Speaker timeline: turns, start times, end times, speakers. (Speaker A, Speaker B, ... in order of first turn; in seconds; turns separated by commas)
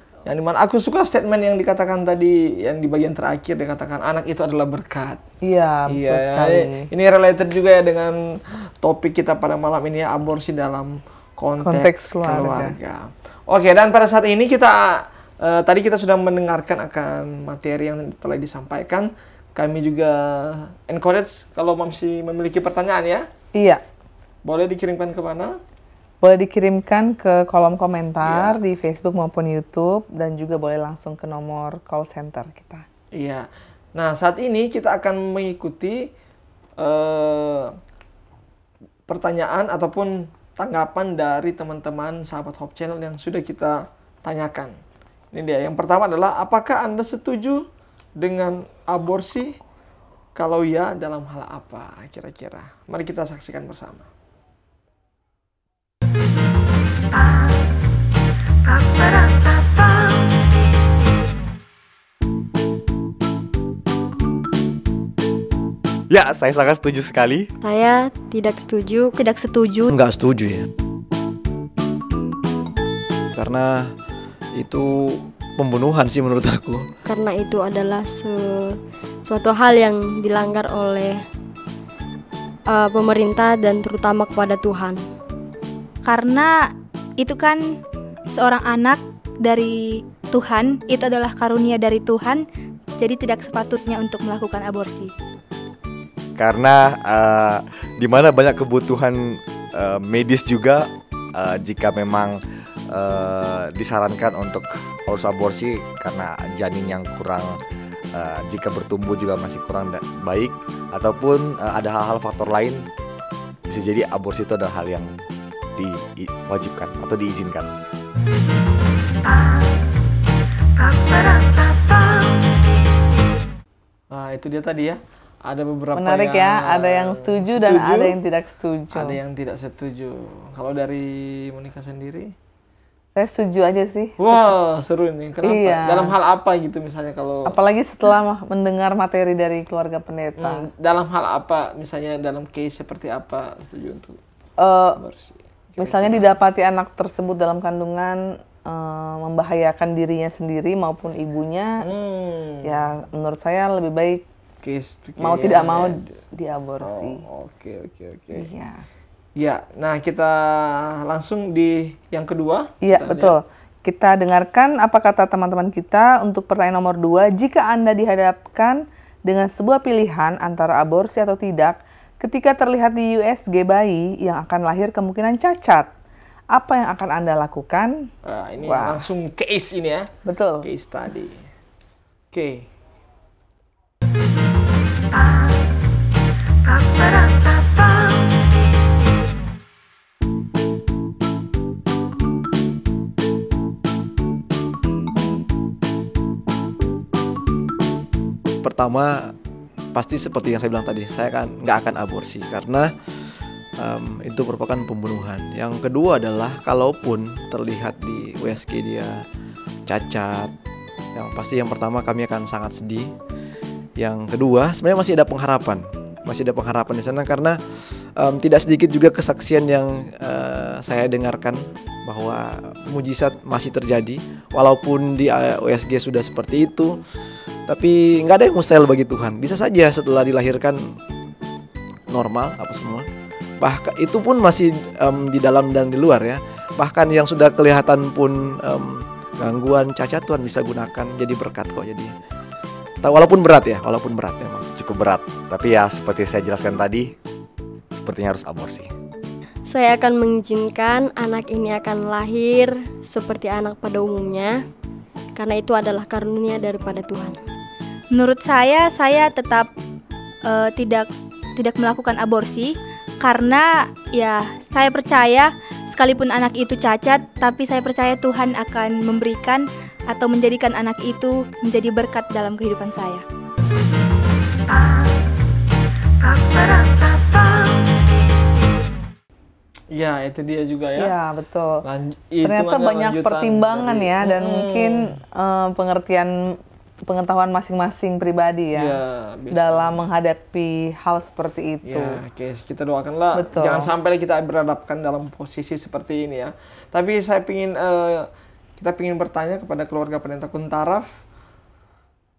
Speaker A: 0.2-5.2, Speaker B: 5.4-6.9, Speaker A: 5.9-23.3, Speaker B: 11.6-12.7, Speaker B: 23.5-23.8, Speaker A: 24.4-25.6, Speaker B: 26.2-32.8, Speaker A: 28.2-28.6, Speaker A: 33.1-36.1, Speaker A: 36.8-37.7, Speaker A: 39.1-44.8, Speaker A: 45.3-47.6, Speaker A: 48.2-49.6, Speaker A: 50.3-54.1, Speaker C: 66.1-67.5, Speaker D: 67.6-69.1, Speaker E: 69.2-69.9, Speaker F: 69.9-70.7, Speaker F: 73.3-73.9, Speaker F: 74.5-76.8, Speaker D: 77.0-81.2, Speaker D: 82.7-85.0, Speaker E: 86.0-87.8, Speaker E: 88.3-92.4, Speaker E: 93.0-95.1, Speaker C: 96.4-102.3, Speaker C: 102.9-107.5, Speaker C: 108.1-112.8, Speaker C: 113.7-115.1, Speaker C: 115.8-117.7, Speaker A: 124.1-128.2, Speaker B: 126.0-129.2, Speaker A: 128.9-132.3, Speaker B: 133.2-134.5, Speaker A: 134.2-137.5, Speaker B: 135.4-136.1, Speaker B: 137.5-140.6, Speaker A: 140.4-144.2, Speaker B: 144.6-145.0, Speaker A: 145.0-146.3, Speaker B: 145.8-151.9, Speaker A: 151.8-152.8, Speaker B: 152.6-154.2, Speaker A: 154.6-156.1, Speaker B: 155.2-157.2, Speaker A: 156.8-158.4, Speaker B: 158.3-158.8, Speaker A: 159.4-163.3, Speaker B: 162.8-175.9, Speaker B: 176.5-178.1, Speaker A: 178.2-180.1, Speaker B: 178.6-179.0, Speaker B: 180.2-180.7, Speaker A: 180.6-181.4, Speaker A: 182.3-182.7, Speaker F: 198.6-199.3, Speaker F: 199.9-202.9, Speaker F: 203.8-209.2, Speaker F: 209.9-210.5, Speaker F: 211.2-213.1, Speaker F: 214.0-217.6, Speaker F: 218.2-227.0, Speaker F: 227.7-230.9, Speaker F: 232.1-233.1, Speaker F: 233.6-242.1, Speaker F: 243.0-244.7, Speaker C: 244.7-247.1, Speaker C: 247.9-248.9, Speaker D: 249.7-254.6, Speaker D: 255.3-257.4, Speaker E: 258.1-259.7, Speaker E: 260.5-273.2, Speaker A: 279.9-281.1, Speaker B: 281.0-281.8, Speaker A: 281.8-285.2, Speaker B: 282.4-286.3, Speaker B: 287.1-289.0, Speaker A: 288.8-290.0, Speaker B: 289.5-292.2, Speaker A: 291.9-301.1, Speaker B: 293.4-293.9